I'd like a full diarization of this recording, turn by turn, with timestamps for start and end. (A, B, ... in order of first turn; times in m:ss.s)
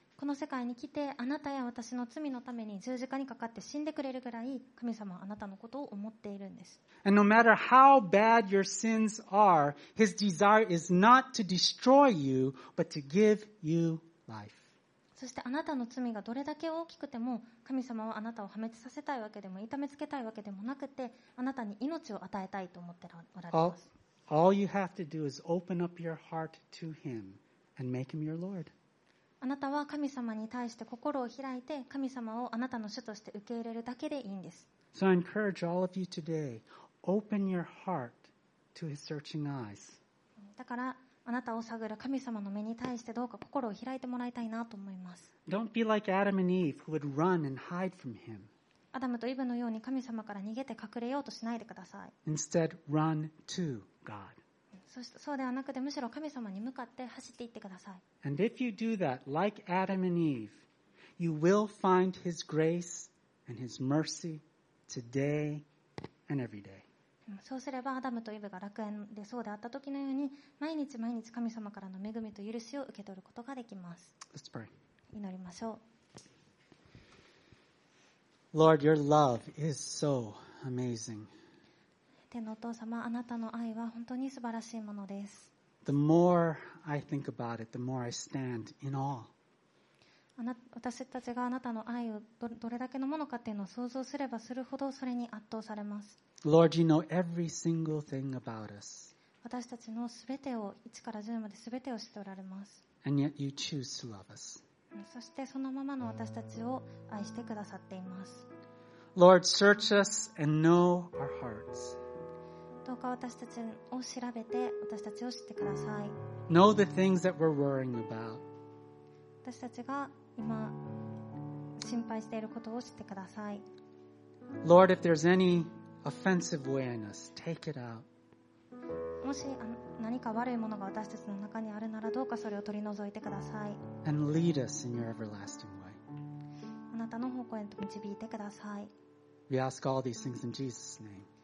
0:00.2-0:06.8 A
0:07.0-0:14.7 B
0:15.2-0:23.8 A
0:23.5-0:23.8 B
0:24.3-0:28.7 B
0:29.4-0:34.7 A
0:34.9-0:40.0 B
0:40.6-0:45.3 A
0:45.5-0:48.5 B
0:48.9-0:52.1 A
0:52.2-0:54.4 B
0:54.9-0:58.0 A
0:58.2-1:00.6 B
1:01.2-1:05.6 B
1:06.3-1:06.9 B
1:07.3-1:14.2 A
1:14.3-1:14.7 B
1:15.1-1:15.8 A
1:18.5-1:21.3 B
1:22.3-1:25.5 A
1:25.8-1:29.3 B
1:30.4-1:36.2 A
1:36.4-1:39.1 B
1:39.4-1:42.8 A
1:43.0-1:44.6 B
1:44.9-1:48.5 A
1:49.2-1:52.0 B
1:52.8-1:56.2 A
1:56.5-1:58.4 B
1:59.4-2:01.2 A
2:01.8-2:03.6 A
2:04.6-2:08.0 B
2:09.2-2:13.8 A
2:14.0-2:16.0 B
2:16.9-2:18.9 A
2:19.5-2:21.3 B